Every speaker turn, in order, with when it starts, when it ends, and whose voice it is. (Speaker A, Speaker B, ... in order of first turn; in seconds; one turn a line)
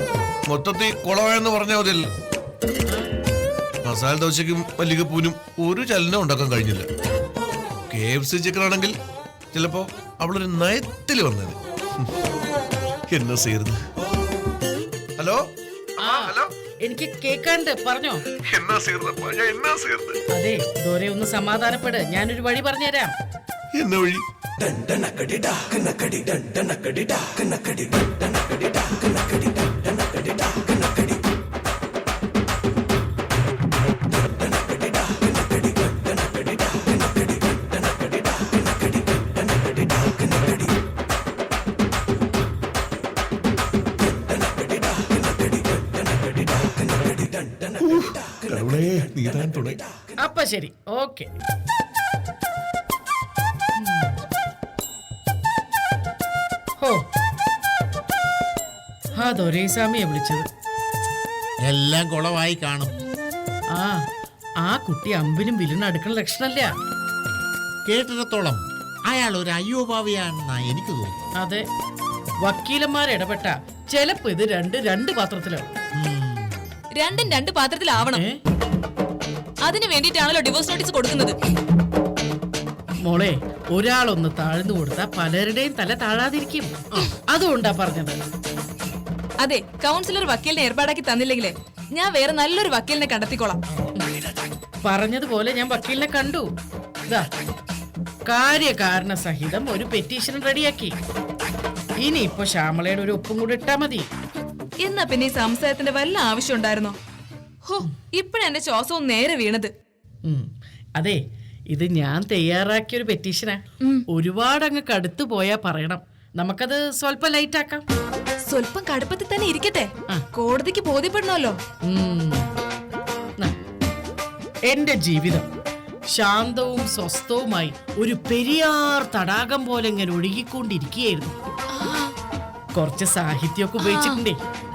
Speaker A: 0.5-2.1
Speaker A: 3.8-6.9
Speaker A: 7.9-8.9
Speaker A: 9.5-12.1
Speaker A: 13.1-13.8
Speaker A: 16.0-16.5
Speaker B: 16.0-18.2
Speaker A: 18.5-20.2
Speaker B: 20.3-23.1
Speaker A: 23.8-26.6
Speaker A: 47.8-49.8
Speaker B: 50.2-51.3
Speaker B: 53.8-54.2
Speaker B: 59.1-60.5
Speaker C: 61.7-62.9
Speaker B: 63.8-64.0
Speaker B: 64.6-66.7
Speaker C: 67.9-71.2
Speaker B: 71.4-71.6
Speaker B: 72.4-75.7
Speaker C: 76.0-76.6
Speaker D: 77.0-78.2
Speaker B: 78.1-78.4
Speaker D: 79.6-81.3
Speaker B: 83.0-86.7
Speaker B: 87.3-88.2
Speaker D: 89.4-93.6
Speaker B: 94.8-96.5
Speaker B: 98.3-101.0
Speaker B: 102.0-104.1
Speaker D: 104.8-107.0
Speaker D: 107.7-109.7
Speaker B: 110.2-117.8
Speaker D: 118.5-121.6
Speaker B: 121.8-122.5
Speaker B: 124.7-125.5
Speaker B: 126.1-131.3
Speaker D: 131.7-132.1
Speaker B: 132.7-134.4
Speaker D: 133.8-134.2